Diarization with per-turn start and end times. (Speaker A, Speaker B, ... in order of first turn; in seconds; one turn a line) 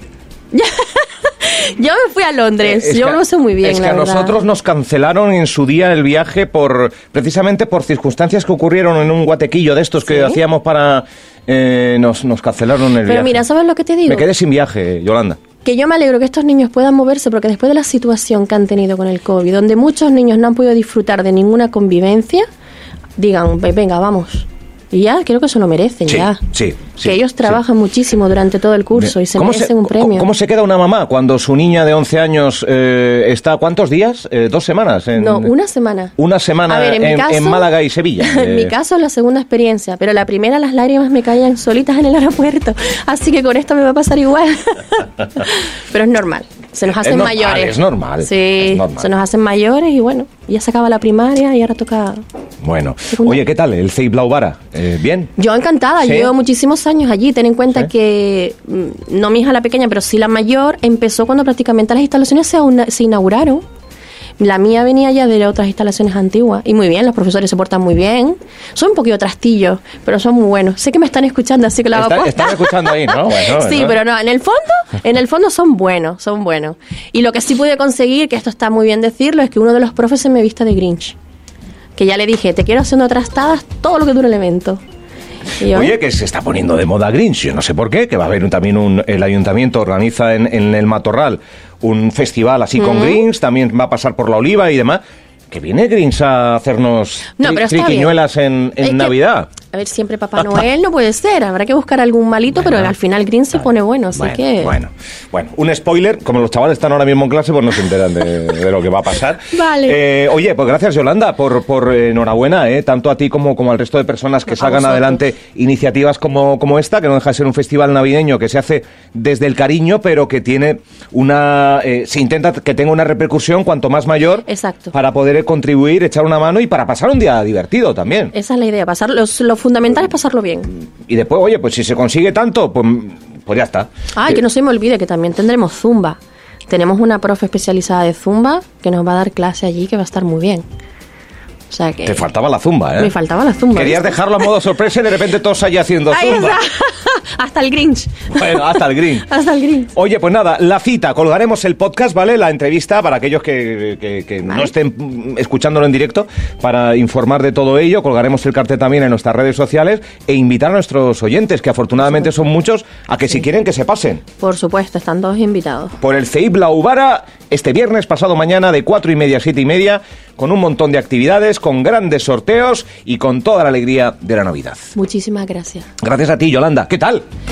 Speaker A: 0.5-4.4
Speaker B: 2.6-13.4
Speaker A: 10.0-10.4
Speaker A: 13.0-14.3
Speaker B: 14.1-15.4
Speaker A: 15.6-22.4
Speaker A: 23.2-26.4
Speaker B: 26.1-27.6
Speaker A: 27.0-30.3
Speaker B: 29.0-35.5
Speaker A: 35.1-36.1
Speaker B: 36.2-38.7
Speaker A: 36.7-52.2
Speaker B: 46.9-49.1
Speaker B: 52.6-55.3
Speaker A: 53.1-53.4
Speaker A: 55.4-63.6
Speaker B: 56.0-56.3
Speaker A: 64.4-81.2
Speaker B: 71.9-74.0
Speaker A: 82.0-84.8
Speaker A: 85.6-86.0
Speaker B: 85.7-99.5
Speaker A: 92.8-93.2
Speaker A: 97.4-98.1
Speaker A: 98.8-104.8
Speaker B: 102.6-102.9
Speaker B: 104.2-128.3
Speaker A: 109.5-110.0
Speaker A: 114.5-115.2
Speaker A: 124.4-124.9
Speaker A: 128.3-130.7
Speaker B: 131.1-133.9
Speaker A: 134.1-140.6
Speaker A: 141.7-142.2
Speaker B: 142.0-143.1
Speaker A: 143.0-144.5
Speaker B: 143.7-146.6
Speaker A: 146.1-149.9
Speaker B: 148.3-149.3
Speaker B: 149.9-164.2
Speaker A: 154.5-154.7
Speaker A: 164.4-165.9
Speaker B: 166.0-174.9
Speaker A: 174.9-175.9
Speaker B: 176.0-177.2